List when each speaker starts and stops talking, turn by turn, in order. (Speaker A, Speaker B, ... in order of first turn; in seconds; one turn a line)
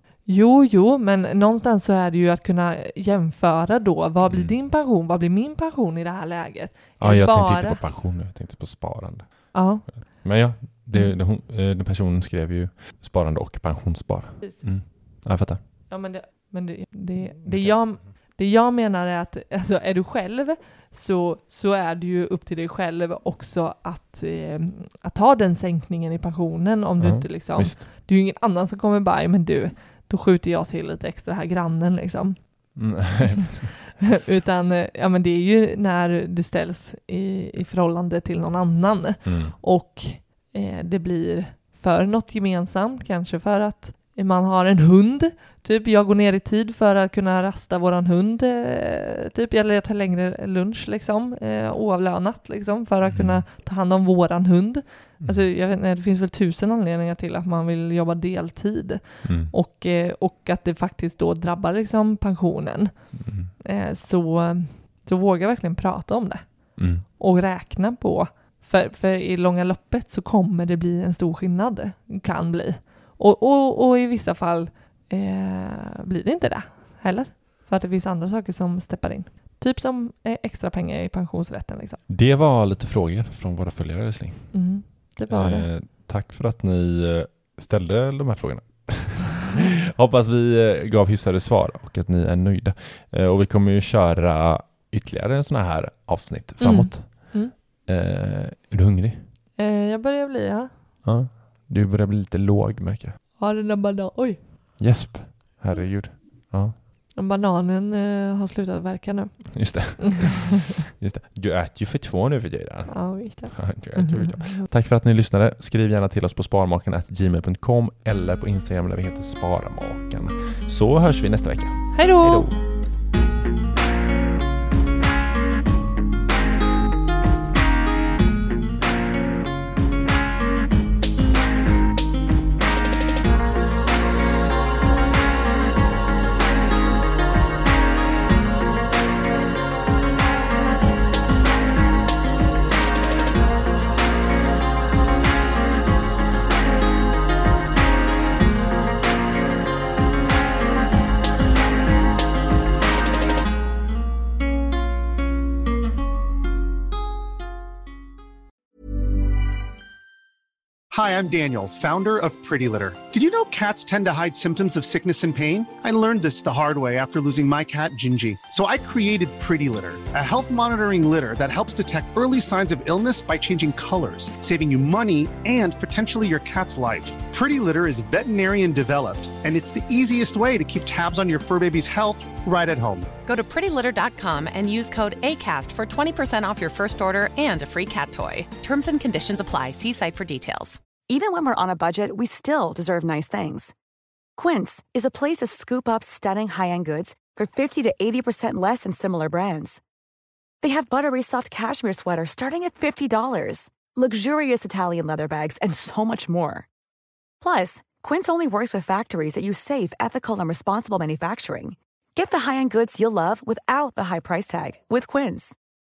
Speaker A: 0.2-7.8
Speaker B: 4.2-4.5
Speaker B: 7.0-15.6
Speaker A: 9.5-10.4
Speaker A: 14.4-15.2
Speaker A: 15.9-32.9
Speaker B: 17.2-18.1
Speaker B: 27.0-27.8
Speaker B: 32.7-33.7
Speaker A: 34.0-82.0
Speaker B: 39.2-39.5
Speaker B: 53.0-53.4
Speaker B: 55.2-55.5
Speaker B: 59.2-59.5
Speaker B: 63.1-63.5
Speaker B: 66.8-67.0
Speaker B: 82.1-99.3
Speaker A: 84.5-85.7
Speaker A: 96.6-97.5
Speaker A: 99.6-100.7
Speaker B: 101.0-103.2
Speaker A: 103.4-104.4
Speaker B: 104.8-106.8
Speaker A: 107.1-110.4
Speaker B: 109.5-122.6
Speaker A: 112.9-114.7
Speaker A: 121.9-122.5
Speaker C: 160.9-183.1
Speaker D: 183.2-190.8
Speaker E: 191.1-193.7
Speaker E: 194.3-199.8
Speaker E: 200.6-206.7
Speaker E: 207.4-215.5